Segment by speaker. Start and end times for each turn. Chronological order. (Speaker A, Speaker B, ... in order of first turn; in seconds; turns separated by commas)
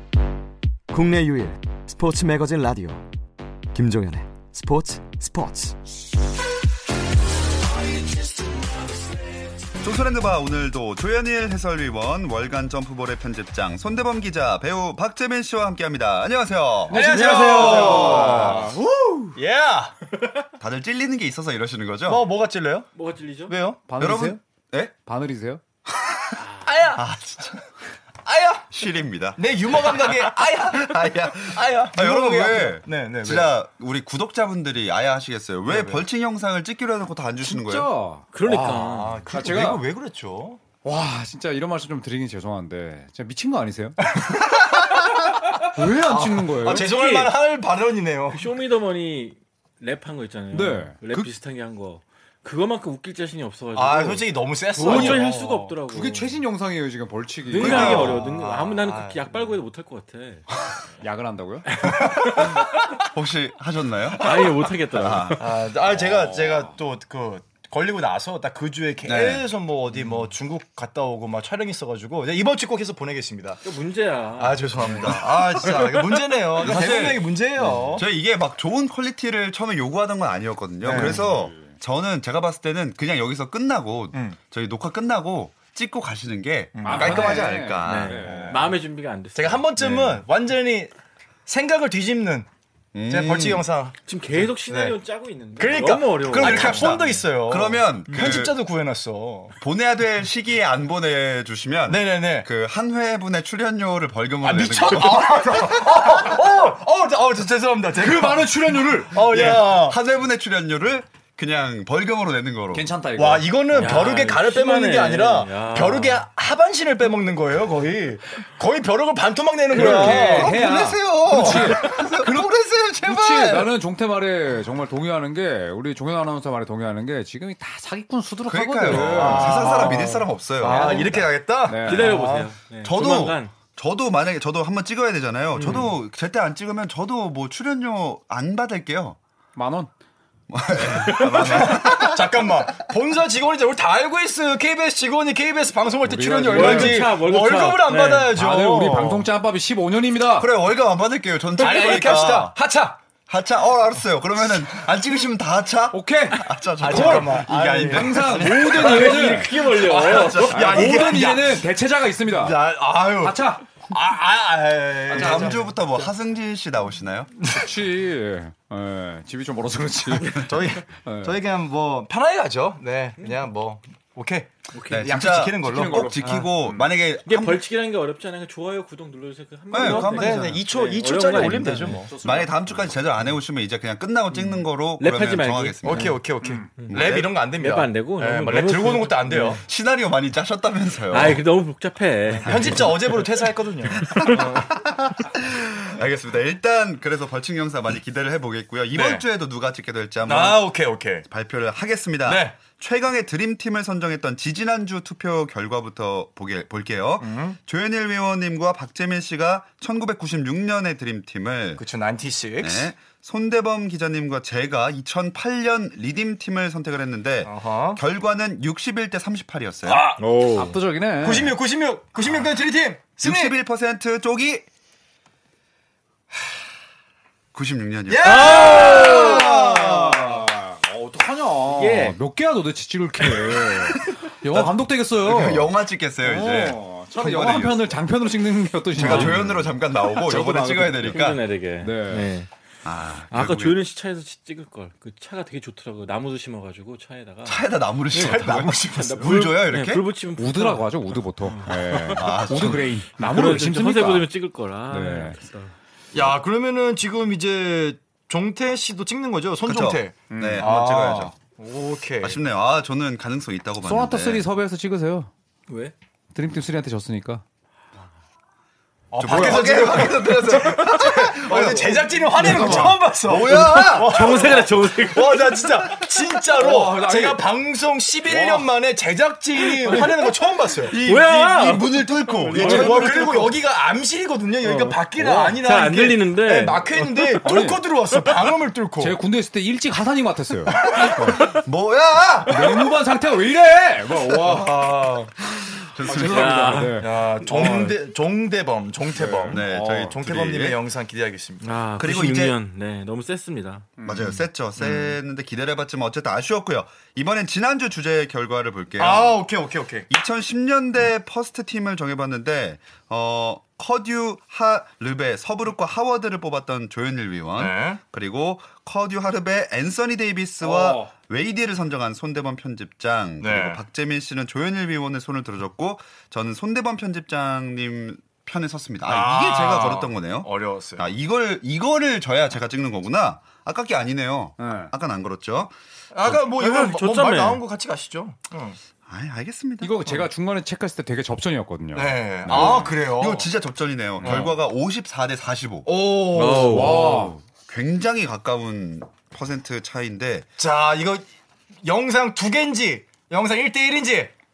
Speaker A: 0.9-3.0, Speaker A: 3.7-5.8, Speaker A: 7.8-9.4, Speaker B: 9.8-18.7, Speaker C: 16.9-19.4, Speaker D: 16.9-18.7, Speaker D: 19.4-19.9, Speaker B: 20.6-22.2, Speaker D: 22.1-22.9, Speaker E: 22.9-23.5, Speaker D: 23.5-23.8, Speaker C: 23.9-24.4, Speaker B: 24.0-24.9, Speaker C: 25.1-25.6, Speaker B: 25.9-26.4, Speaker D: 26.6-27.1, Speaker B: 26.9-27.6, Speaker D: 28.2-28.7, Speaker B: 28.7-37.9, Speaker D: 29.4-33.5, Speaker D: 35.7-36.0, Speaker C: 37.4-39.8, Speaker E: 38.3-39.2, Speaker D: 38.8-40.6, Speaker C: 40.8-44.0, Speaker D: 44.1-45.3, Speaker C: 45.6-46.9, Speaker D: 45.9-48.4, Speaker E: 46.6-47.3, Speaker E: 48.3-56.4, Speaker C: 50.5-51.3, Speaker D: 53.7-55.8, Speaker C: 54.8-55.2, Speaker C: 55.9-58.1, Speaker E: 57.5-60.5, Speaker D: 57.5-59.6, Speaker B: 57.6-58.2, Speaker C: 61.0-61.8, Speaker E: 61.7-62.7, Speaker D: 61.8-62.5, Speaker B: 63.1-65.5, Speaker E: 64.2-65.5, Speaker D: 65.4-73.6, Speaker C: 66.0-66.7, Speaker B: 69.0-69.5, Speaker E: 73.6-76.0, Speaker D: 74.4-78.0, Speaker B: 74.8-75.7, Speaker B: 76.5-88.2, Speaker D: 80.8-81.2, Speaker C: 80.9-81.7, Speaker D: 86.7-87.5, Speaker C: 86.8-88.7, Speaker E: 87.8-90.2, Speaker D: 88.2-88.7, Speaker D: 89.3-90.9, Speaker D: 91.5-92.5, Speaker B: 92.9-93.7, Speaker D: 93.1-95.0, Speaker E: 94.0-97.2, Speaker D: 95.6-99.5, Speaker B: 96.3-98.5, Speaker E: 98.1-98.4, Speaker B: 99.6-106.3, Speaker D: 101.9-102.5, Speaker D: 104.4-110.0, Speaker C: 108.0-109.5, Speaker B: 109.1-112.9, Speaker C: 112.7-114.1, Speaker D: 113.2-120.6, Speaker E: 113.7-116.2, Speaker C: 119.7-122.5, Speaker B: 119.7-123.7, Speaker C: 123.0-130.1, Speaker B: 128.4-131.3, Speaker D: 128.8-132.5, Speaker E: 130.6-131.1, Speaker C: 131.6-132.2, Speaker E: 131.8-133.5, Speaker B: 132.8-139.2, Speaker E: 135.5-135.9, Speaker C: 139.6-139.9, Speaker B: 140.5-142.5, Speaker E: 141.0-141.6, Speaker D: 141.2-149.2, Speaker C: 146.0-147.2, Speaker E: 146.5-148.3, Speaker C: 148.3-150.5, Speaker B: 150.4-152.6, Speaker D: 151.5-153.0, Speaker B: 153.3-160.9, Speaker C: 155.9-159.6, Speaker D: 156.8-161.6, Speaker E: 158.4-160.9, Speaker C: 160.5-162.6, Speaker D: 162.3-165.8, Speaker C: 163.2-163.7, Speaker C: 165.1-165.6, Speaker B: 165.1-167.3, Speaker D: 167.4-167.7, Speaker C: 167.5-171.4, Speaker D: 170.1-176.4, Speaker E: 174.7-175.1, Speaker B: 174.9-177.6, Speaker C: 175.6-176.9, Speaker E: 177.2-182.1, Speaker B: 179.7-180.6, Speaker D: 179.8-182.1, Speaker C: 181.3-182.9, Speaker B: 182.2-186.1, Speaker E: 184.3-186.2, Speaker D: 185.8-189.6, Speaker C: 186.4-186.7, Speaker E: 186.8-189.6, Speaker B: 186.9-187.3, Speaker B: 189.6-191.4, Speaker E: 191.1-193.1, Speaker D: 192.4-194.8, Speaker B: 194.1-200.7, Speaker D: 198.9-199.2, Speaker D: 200.2-201.2, Speaker B: 201.3-211.8, Speaker D: 202.2-202.6, Speaker D: 207.2-207.6, Speaker D: 211.8-212.9, Speaker B: 212.6-220.0, Speaker D: 217.4-218.0, Speaker D: 219.8-220.2, Speaker E: 220.2-220.8, Speaker C: 220.5-221.6, Speaker D: 221.2-223.6, Speaker B: 223.2-224.7, Speaker B: 227.5-229.0, Speaker D: 228.1-230.5, Speaker E: 228.2-229.5, Speaker C: 228.3-241.3, Speaker E: 231.7-232.2, Speaker B: 234.1-237.9, Speaker B: 238.9-241.4, Speaker E: 239.0-239.4, Speaker E: 241.1-242.5, Speaker C: 241.8-242.3, Speaker B: 242.8-243.8, Speaker E: 243.3-255.7, Speaker B: 247.4-250.1, Speaker D: 248.1-248.9, Speaker C: 250.4-254.3, Speaker B: 252.1-252.9, Speaker C: 254.9-255.4, Speaker B: 256.1-256.4, Speaker D: 256.1-262.4, Speaker B: 259.6-261.3, Speaker C: 260.3-260.7, Speaker B: 262.2-264.4, Speaker C: 263.8-265.3, Speaker E: 265.7-265.9, Speaker C: 266.3-267.4, Speaker D: 269.1-281.0, Speaker B: 269.2-274.5, Speaker C: 269.2-269.7, Speaker C: 272.3-273.0, Speaker E: 273.5-276.0, Speaker C: 276.5-277.4, Speaker C: 278.2-278.7, Speaker C: 279.8-280.2, Speaker B: 280.8-283.5, Speaker E: 280.9-283.4, Speaker D: 282.5-289.2, Speaker C: 282.6-283.3, Speaker E: 284.6-287.5, Speaker C: 287.4-287.8, Speaker C: 289.0-291.5, Speaker D: 290.7-291.3, Speaker B: 291.0-292.9, Speaker C: 292.5-294.8, Speaker B: 294.3-294.6, Speaker D: 294.4-295.3, Speaker B: 295.5-296.9, Speaker C: 296.0-297.2, Speaker E: 296.1-297.9, Speaker D: 297.0-301.7, Speaker C: 299.1-300.1, Speaker B: 299.4-300.8, Speaker E: 301.6-304.4, Speaker B: 302.0-302.6, Speaker C: 304.0-304.3, Speaker B: 304.0-309.4, Speaker D: 304.8-305.1, Speaker D: 309.0-310.1, Speaker B: 310.1-336.4, Speaker D: 317.5-318.0, Speaker C: 320.6-321.1, Speaker D: 323.4-323.8, Speaker D: 329.0-331.1, Speaker C: 334.6-334.9, Speaker D: 336.1-338.8, Speaker E: 336.3-337.6, Speaker B: 339.1-340.0, Speaker C: 339.8-342.9, Speaker D: 341.9-343.5, Speaker B: 342.4-345.9, Speaker D: 344.2-344.5, Speaker C: 344.2-344.5, Speaker D: 345.9-347.4, Speaker C: 346.3-347.4, Speaker E: 346.5-346.9, Speaker B: 347.6-350.5, Speaker D: 350.6-351.3, Speaker D: 351.8-354.3